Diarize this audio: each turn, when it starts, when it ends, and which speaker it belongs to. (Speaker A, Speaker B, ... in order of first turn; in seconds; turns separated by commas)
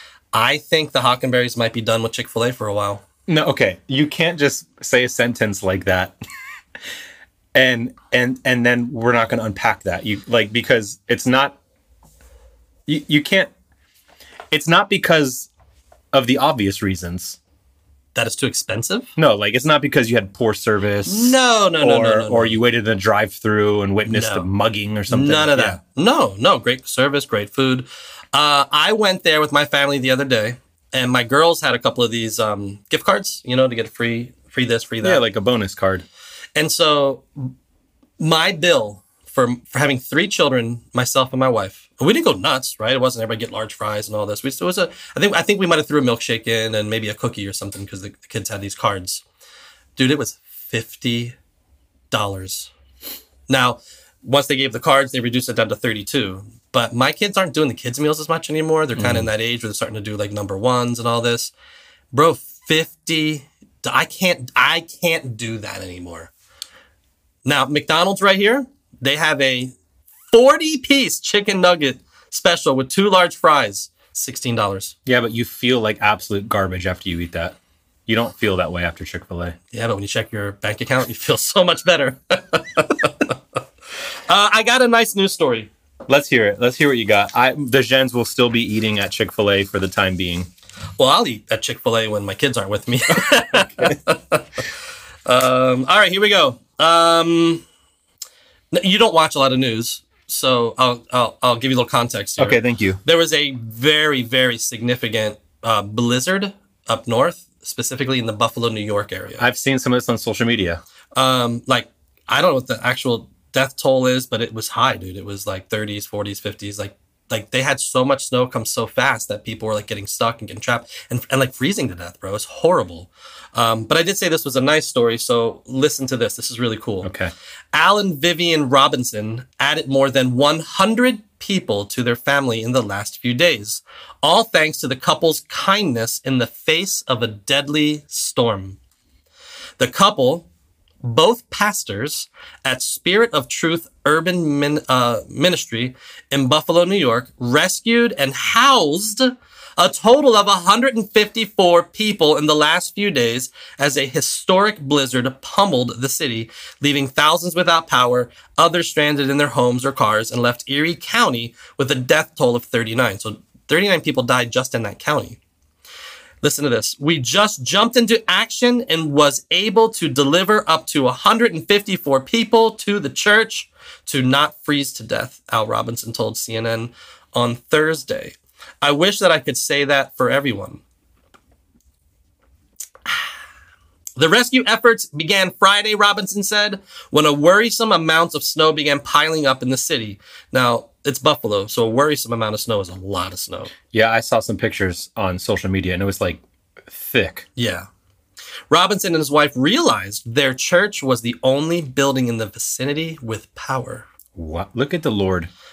Speaker A: 0.3-3.0, Speaker B: 3.3-6.2, Speaker B: 7.5-11.6, Speaker B: 12.9-13.5, Speaker B: 14.5-15.5, Speaker B: 16.1-17.4, Speaker A: 18.1-19.1, Speaker B: 19.2-25.8, Speaker A: 21.1-22.6, Speaker A: 24.1-24.5, Speaker A: 25.1-35.2, Speaker B: 35.0-36.1, Speaker A: 36.6-37.5, Speaker A: 38.2-49.2, Speaker A: 50.0-51.4, Speaker A: 52.1-52.7, Speaker A: 53.5-61.5, Speaker B: 59.0-59.3, Speaker A: 62.1-66.3, Speaker A: 67.5-69.7, Speaker A: 70.3-75.0, Speaker B: 75.1-79.6, Speaker A: 79.7-83.3, Speaker A: 84.3-85.7, Speaker B: 86.1-90.5, Speaker A: 91.0-94.6, Speaker B: 93.5-94.0, Speaker A: 95.2-97.7, Speaker A: 98.7-109.5, Speaker B: 102.4-103.0, Speaker B: 109.4-110.8, Speaker A: 111.2-127.1, Speaker B: 127.0-127.3, Speaker A: 127.7-138.8, Speaker A: 139.8-140.5, Speaker A: 141.0-165.4, Speaker A: 166.4-180.8, Speaker A: 184.2-193.7, Speaker B: 193.9-197.5, Speaker A: 197.6-197.9, Speaker A: 198.7-204.1, Speaker B: 204.4-205.5